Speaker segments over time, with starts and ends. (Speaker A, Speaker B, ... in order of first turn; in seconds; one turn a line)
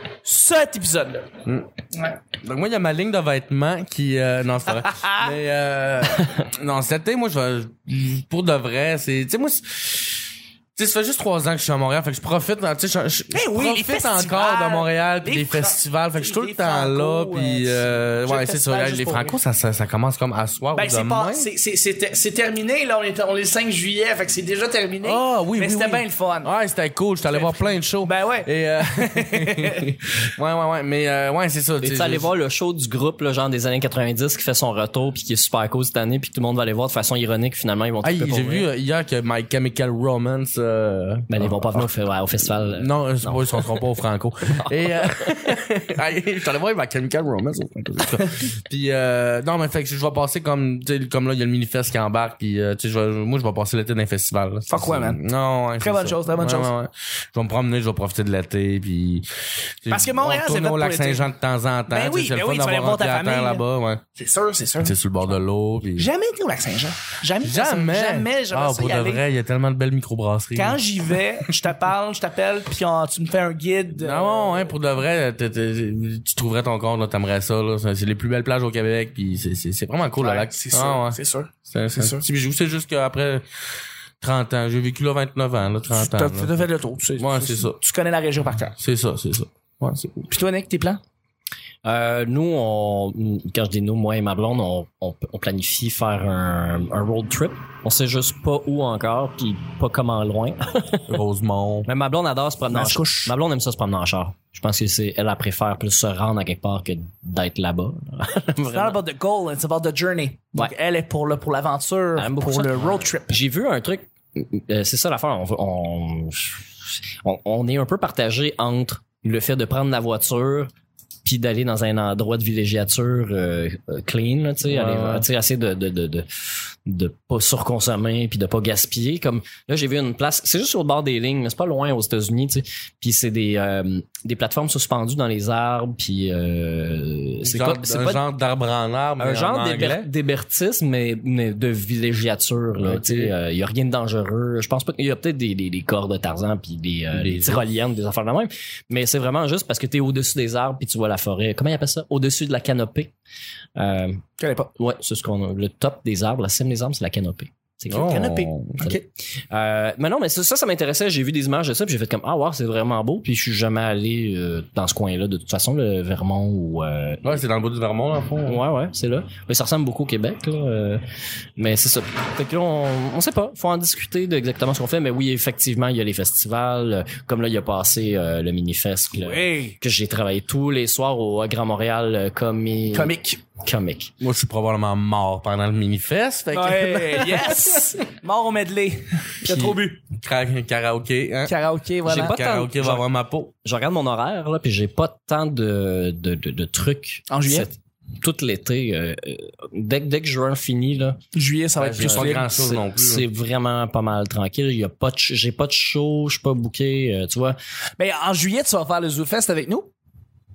Speaker A: 0.2-1.3
Speaker B: 2.4-10.2
Speaker A: 4.7-5.3
Speaker B: 10.8-21.5
Speaker A: 13.3-19.4
Speaker A: 20.8-26.5
Speaker B: 25.0-32.3
Speaker A: 27.2-29.8
Speaker C: 31.8-38.7
Speaker B: 38.0-41.9
Speaker C: 41.3-43.7
Speaker B: 42.6-59.3
Speaker C: 44.5-45.5
Speaker A: 54.7-55.2
Speaker A: 55.8-56.7
Speaker B: 59.8-64.0
Speaker A: 59.9-61.3
Speaker A: 61.9-63.6
Speaker A: 64.2-64.9
Speaker B: 64.8-66.1
Speaker A: 66.0-69.2
Speaker B: 67.4-71.2
Speaker A: 70.5-74.7
Speaker B: 74.0-81.2
Speaker A: 80.2-82.2
Speaker B: 81.7-83.4
Speaker B: 84.2-86.7
Speaker A: 85.9-88.8
Speaker B: 87.2-87.8
Speaker B: 88.8-90.3
Speaker A: 90.3-91.0
Speaker C: 91.8-101.2
Speaker B: 101.1-101.9
Speaker C: 101.9-109.0
Speaker A: 102.7-103.4
Speaker A: 108.7-113.4
Speaker C: 112.2-120.7
Speaker C: 121.2-126.3
Speaker B: 124.7-125.3
Speaker C: 126.8-138.2
Speaker B: 137.4-140.1
Speaker C: 139.2-153.1
Speaker B: 142.8-143.3
Speaker B: 147.1-147.7
Speaker C: 153.8-154.2
Speaker A: 154.4-154.7
Speaker C: 154.8-158.2
Speaker B: 157.9-158.9
Speaker A: 158.0-159.0
Speaker C: 159.5-167.4
Speaker B: 167.2-168.6
Speaker C: 168.5-171.0
Speaker C: 171.6-184.1
Speaker A: 179.2-179.8
Speaker A: 182.9-183.4
Speaker B: 184.2-187.9
Speaker A: 186.5-190.0
Speaker B: 189.4-191.5
Speaker A: 191.5-192.3
Speaker C: 192.1-193.0
Speaker B: 192.1-193.5
Speaker C: 193.6-201.2
Speaker A: 197.3-197.7
Speaker A: 201.3-202.4
Speaker B: 201.8-203.2
Speaker C: 202.0-207.6
Speaker A: 208.0-209.9